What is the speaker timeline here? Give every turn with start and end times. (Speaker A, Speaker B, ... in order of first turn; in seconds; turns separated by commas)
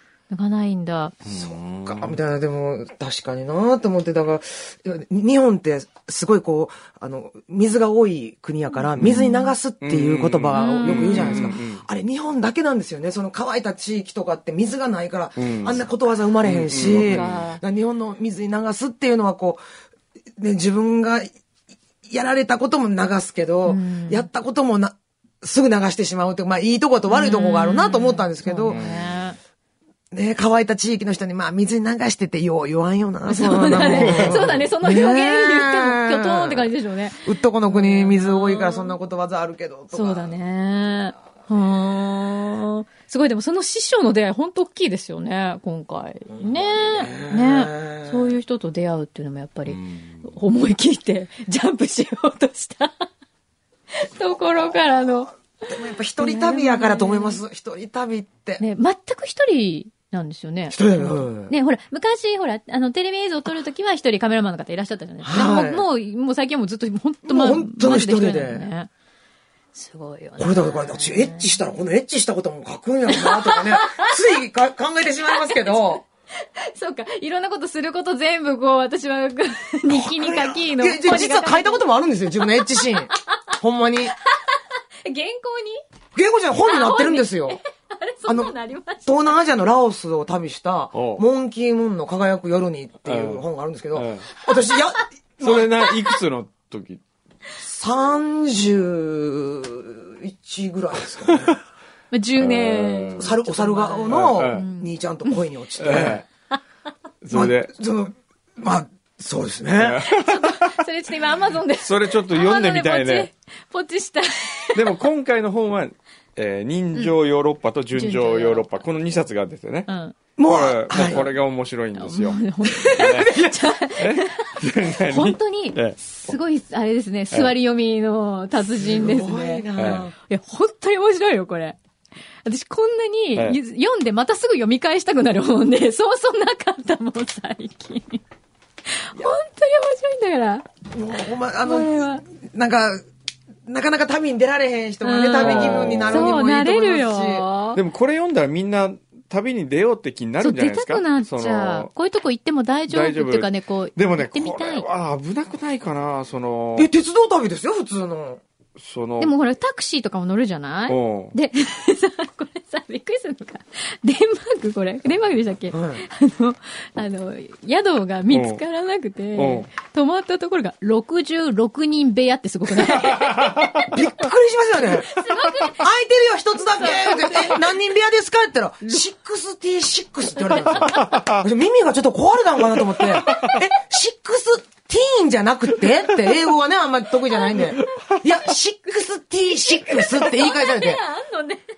Speaker A: 0.3-1.1, Speaker B: 1.2-2.2, Speaker C: 1.3-19.6, Speaker B: 9.0-9.3, Speaker A: 9.0-9.5, Speaker B: 9.8-11.8, Speaker A: 10.5-11.6, Speaker B: 15.4-15.8, Speaker B: 16.4-17.4, Speaker A: 16.8-17.6, Speaker C: 20.4-21.3, Speaker C: 22.0-28.8, Speaker A: 23.6-24.3, Speaker A: 27.1-29.4, Speaker B: 28.7-29.1, Speaker C: 30.1-36.7, Speaker A: 33.3-38.9, Speaker B: 33.9-34.6, Speaker C: 37.2-40.3, Speaker A: 39.9-53.0, Speaker C: 46.3-48.3, Speaker B: 49.7-50.2, Speaker A: 53.9-57.4, Speaker C: 55.7-58.6, Speaker A: 58.6-68.9, Speaker C: 60.7-61.5, Speaker C: 65.2-65.8, Speaker C: 67.2-68.7, Speaker A: 69.7-71.4, Speaker C: 70.4-76.0, Speaker A: 73.1-74.1, Speaker A: 75.4-81.8, Speaker C: 79.9-84.1, Speaker A: 82.6-83.3, Speaker A: 84.2-85.8, Speaker C: 86.1-87.6, Speaker A: 86.6-89.3, Speaker C: 88.2-88.5, Speaker C: 89.0-95.9, Speaker B: 90.9-91.2, Speaker B: 93.0-94.2, Speaker B: 95.4-97.0, Speaker C: 97.6-101.6, Speaker B: 101.3-101.5, Speaker A: 102.1-105.3, Speaker B: 102.4-103.3, Speaker C: 103.2-106.2, Speaker B: 104.1-104.6, Speaker B: 105.8-106.2, Speaker B: 107.2-107.7, Speaker C: 107.3-110.0, Speaker B: 109.8-110.7, Speaker A: 110.1-114.8, Speaker B: 111.8-113.3, Speaker B: 114.7-119.9, Speaker A: 117.9-118.7, Speaker A: 119.9-120.2, Speaker C: 120.4-121.3, Speaker B: 120.5-123.4, Speaker A: 122.0-131.8, Speaker C: 122.9-123.5, Speaker B: 123.9-126.3, Speaker C: 128.8-130.1, Speaker B: 129.8-130.1, Speaker A: 132.4-138.2, Speaker A: 138.9-140.6, Speaker C: 140.9-143.0, Speaker A: 141.6-142.2, Speaker C: 143.7-147.5, Speaker A: 145.0-147.8, Speaker B: 145.3-146.4, Speaker B: 147.7-151.9, Speaker A: 150.4-154.8, Speaker B: 152.9-156.9, Speaker C: 156.8-158.4, Speaker B: 158.8-159.3, Speaker A: 159.2-173.8, Speaker B: 160.9-161.3, Speaker C: 165.7-166.0, Speaker B: 168.3-168.6, Speaker B: 169.3-169.7, Speaker B: 173.0-173.8, Speaker C: 173.9-191.0, Speaker A: 175.1-175.8, Speaker A: 176.8-177.7, Speaker A: 180.6-181.1, Speaker B: 180.9-181.4, Speaker A: 189.7-191.6